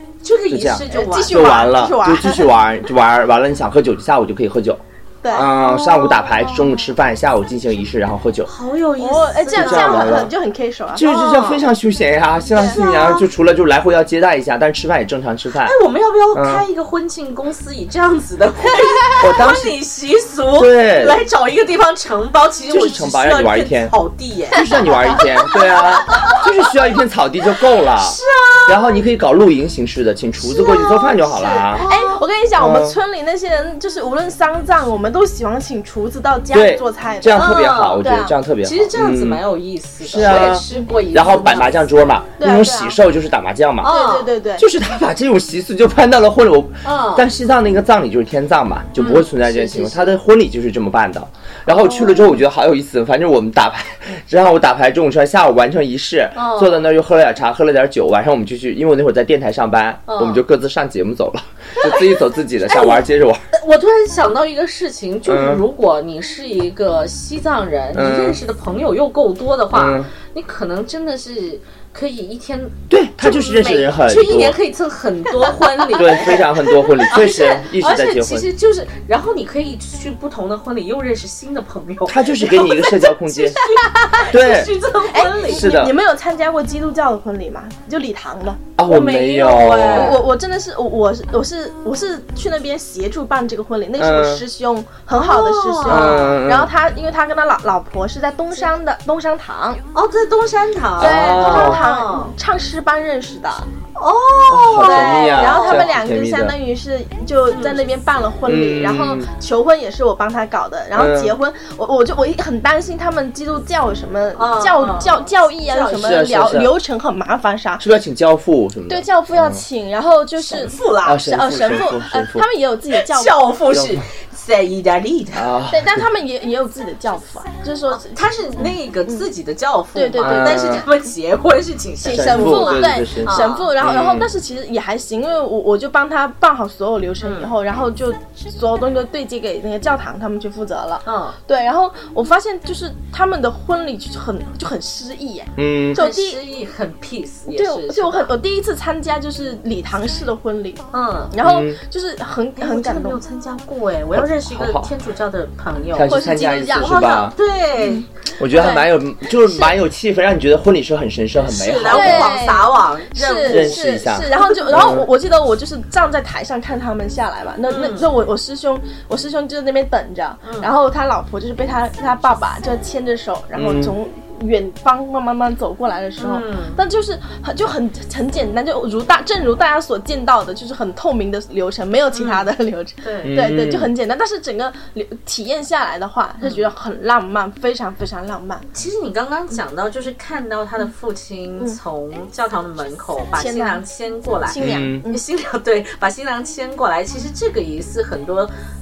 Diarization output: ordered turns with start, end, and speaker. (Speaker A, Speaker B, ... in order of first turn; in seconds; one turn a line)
Speaker A: 0.2-1.7
Speaker B: 0.5-4.8
Speaker C: 0.9-2.5
Speaker C: 5.2-5.5
Speaker B: 5.3-8.5
Speaker A: 5.3-6.9
Speaker A: 8.5-10.3
Speaker C: 9.0-11.1
Speaker B: 9.5-10.3
Speaker B: 10.9-15.7
Speaker A: 11.0-11.7
Speaker C: 12.5-13.2
Speaker A: 15.6-26.4
Speaker B: 16.3-16.7
Speaker B: 19.2-19.7
Speaker B: 20.6-21.2
Speaker B: 22.7-23.9
Speaker B: 24.5-31.9
Speaker C: 24.6-26.4
Speaker A: 28.0-29.0
Speaker C: 30.4-38.3
Speaker A: 31.6-32.2
Speaker B: 32.6-33.0
Speaker B: 36.5-39.4
Speaker A: 37.4-38.0
Speaker A: 38.6-41.9
Speaker B: 40.0-43.9
Speaker C: 40.2-40.9
Speaker C: 42.4-43.0
Speaker A: 43.8-44.3
Speaker C: 43.8-44.6
Speaker B: 44.6-63.4
Speaker A: 46.8-47.2
Speaker A: 49.0-50.2
Speaker C: 51.7-52.4
Speaker A: 56.4-56.8
Speaker A: 60.1-60.4
Speaker A: 61.8-85.7
Speaker B: 65.3-65.7
Speaker B: 67.9-68.4
Speaker B: 69.7-70.1
Speaker B: 72.9-74.6
Speaker C: 75.6-76.4
Speaker B: 76.0-78.5
Speaker B: 82.1-83.6
Speaker C: 82.4-83.0
Speaker C: 83.6-84.2
Speaker B: 84.2-84.7
Speaker C: 85.1-88.7
Speaker B: 85.5-85.9
Speaker B: 88.8-90.2
Speaker A: 88.8-90.2
Speaker C: 89.9-99.8
Speaker B: 94.0-94.4
Speaker A: 95.2-96.3
Speaker B: 95.9-96.7
Speaker A: 99.9-102.3
Speaker B: 101.0-101.9
Speaker C: 101.0-103.7
Speaker A: 104.0-105.9
Speaker B: 104.5-106.5
Speaker C: 104.8-117.8
Speaker A: 107.5-107.8
Speaker B: 108.5-109.3
Speaker B: 110.9-111.3
Speaker A: 114.4-116.3
Speaker B: 116.0-116.7
Speaker B: 117.8-119.6
Speaker C: 118.9-123.4
Speaker A: 120.4-121.8
Speaker B: 121.0-122.5
Speaker A: 122.9-125.5
Speaker B: 123.7-124.0
Speaker B: 125.3-126.0
Speaker C: 125.7-128.1
Speaker A: 127.9-133.7
Speaker C: 129.9-130.8
Speaker B: 130.2-130.8
Speaker C: 132.0-146.4
Speaker B: 132.1-134.3
Speaker A: 137.2-137.5
Speaker A: 141.1-141.4
Speaker B: 145.6-146.0
Speaker A: 145.9-148.3
Speaker C: 147.5-153.2
Speaker A: 150.9-151.3
Speaker B: 151.4-151.8
Speaker A: 152.6-156.2
Speaker B: 154.1-154.9
Speaker B: 155.9-157.4
Speaker C: 156.1-158.9
Speaker A: 156.7-158.1
Speaker B: 158.4-162.4
Speaker C: 159.5-159.8
Speaker A: 161.4-163.8
Speaker C: 161.9-188.7
Speaker B: 163.4-165.1
Speaker A: 164.6-164.9
Speaker A: 167.7-168.1
Speaker A: 170.4-170.7
Speaker B: 173.6-173.9
Speaker A: 176.2-176.8
Speaker A: 182.1-182.5
Speaker A: 183.0-183.3
Speaker B: 183.2-183.9
Speaker A: 186.4-186.7
Speaker A: 188.7-198.5
Speaker C: 193.4-193.8
Speaker C: 194.5-195.2
Speaker B: 194.6-195.0